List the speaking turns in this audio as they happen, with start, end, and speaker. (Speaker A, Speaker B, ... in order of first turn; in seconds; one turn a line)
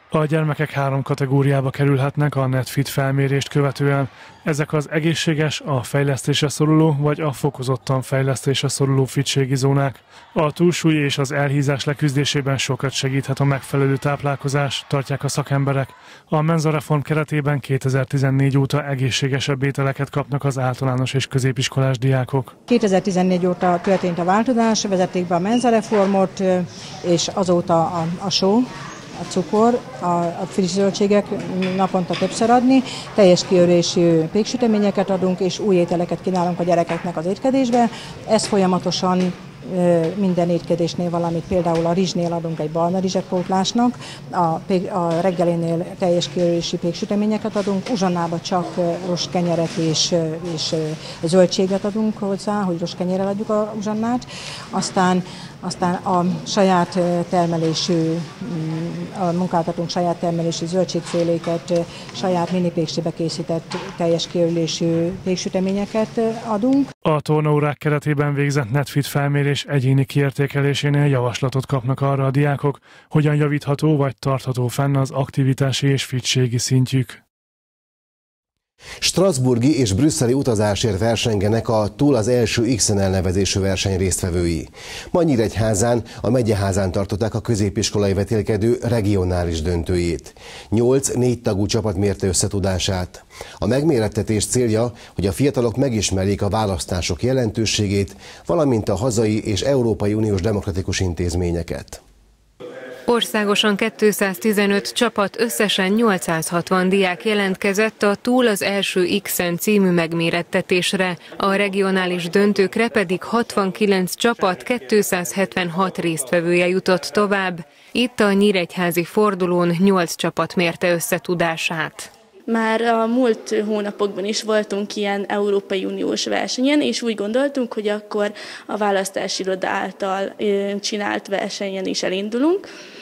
Speaker A: 0.1-22.5
Speaker B: 22.7-28.7
Speaker B: 29.2-66.9
Speaker A: 67.0-77.2
Speaker C: 79.0-102.0
Speaker D: 103.0-122.1
Speaker E: 122.5-132.7